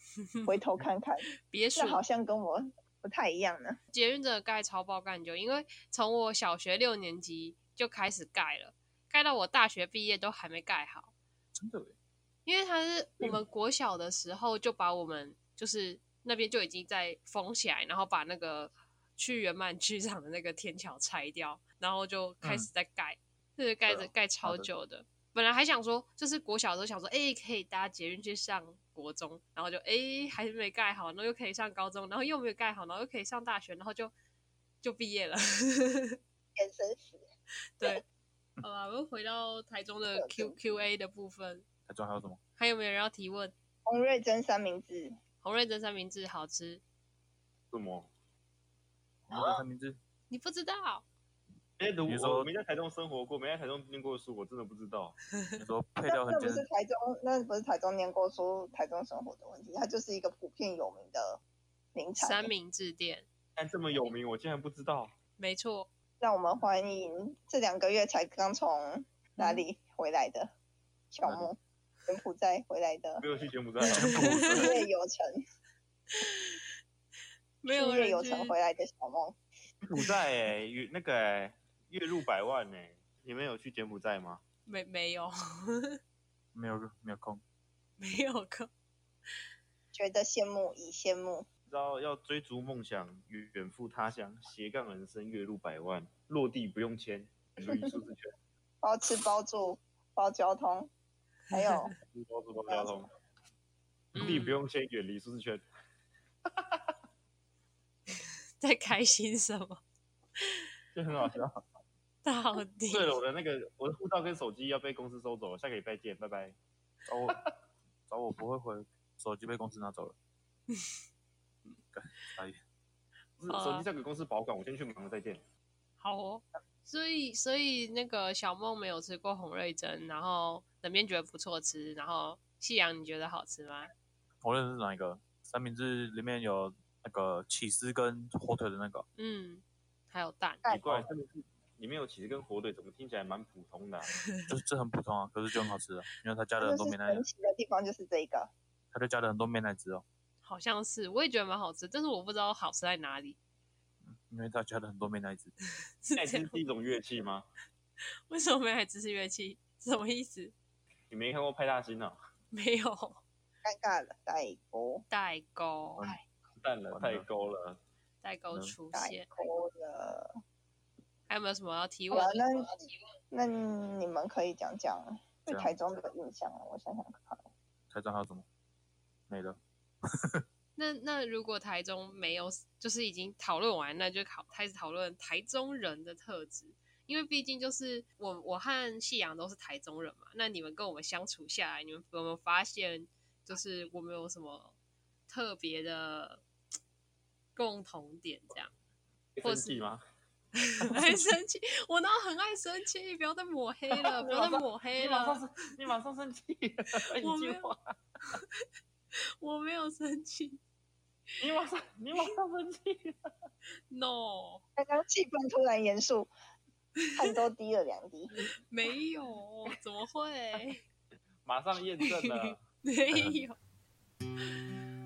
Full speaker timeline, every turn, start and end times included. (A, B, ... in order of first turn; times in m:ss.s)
0:00.5-0:01.2 A
0:01.5-0:02.0 B
0:01.8-0:03.8 A
0:03.9-0:11.1 B
0:11.6-0:11.9 C
0:12.5-0:34.1 B
0:23.9-0:24.7 C
0:34.8-0:36.2 B
0:36.6-0:37.2 A
0:38.6-0:41.6 B
0:40.2-0:40.6 A
0:41.9-0:42.4 C
0:42.6-0:43.5 B
0:43.9-0:45.1 A
0:45.4-0:46.8 B
0:47.7-0:48.1 D
0:49.3-0:50.0 C
0:50.3-0:51.1 B
0:51.8-0:55.2 D
0:52.1-0:52.4 C
0:55.6-0:56.7 C
0:56.1-1:01.4 A
1:02.0-1:02.5 A
1:02.2-1:03.3 B
1:03.6-1:05.1 D
1:05.4-1:05.9 B
1:06.2-1:10.5 A
1:09.4-1:09.6 B
1:11.1-1:13.2 A
1:11.2-1:11.5 C
1:13.2-1:14.8 D
1:13.9-1:14.8 B
1:14.6-1:15.3 A
1:16.2-1:16.5 B
1:17.6-1:18.5 B
1:17.7-1:19.4 A
1:19.9-1:24.4 D
1:24.7-1:26.0 B
1:26.6-1:27.4 C
1:28.0-1:28.7 B
1:29.9-1:31.5 A
1:31.7-1:38.3 D
1:38.8-1:40.9 A
1:41.5-1:41.9 A
1:42.1-1:43.1 D
1:44.2-1:44.6 B
1:44.2-1:45.6 D
1:46.6-1:46.9 D
1:48.6-1:49.8 B
1:50.9-1:51.6 D
1:52.2-1:53.2 B
1:52.9-1:56.6 D
1:57.1-1:57.4 C
1:57.3-1:57.5 D
1:58.1-2:00.2 C
2:02.0-2:02.6 C
2:03.4-2:05.4 D
2:03.5-2:03.9 B
2:06.0-2:13.9 B
2:14.4-2:19.0 C
2:19.2-2:20.6 B
2:20.7-2:24.2 D
2:24.5-2:27.2 C
2:26.6-2:28.5 A
2:28.9-2:30.0 C
2:30.4-2:33.4 B
2:34.1-2:35.5 C
2:36.0-2:36.6 B
2:36.2-2:37.5 D
2:38.3-2:40.5 B
2:41.1-2:42.2 D
2:42.5-2:43.2 B
2:43.6-2:45.0 A
2:45.1-2:46.0 B
2:46.6-2:47.8 D
2:46.9-2:47.2 C
2:48.2-2:49.3 B
2:48.9-2:50.3 A
2:51.3-2:52.4 B
2:52.1-2:52.7 A
2:53.3-2:57.5 A
2:57.9-2:58.4 C
2:59.3-2:59.6 C
3:00.8-3:14.8 B
3:15.3-3:16.4 B
3:17.6-3:18.7 B
3:19.4-3:20.0 D
3:19.4-3:19.9 B
3:20.8-3:25.4 B
3:24.0-3:27.8 D
3:27.2-3:27.7 B
3:29.4-3:30.6 B
3:31.4-3:33.3 D
3:33.9-3:34.6 B
3:34.8-3:36.3 A
3:37.2-3:38.3 A
3:38.7-3:40.8 B
3:41.4-3:42.6 D
3:42.1-3:43.6 B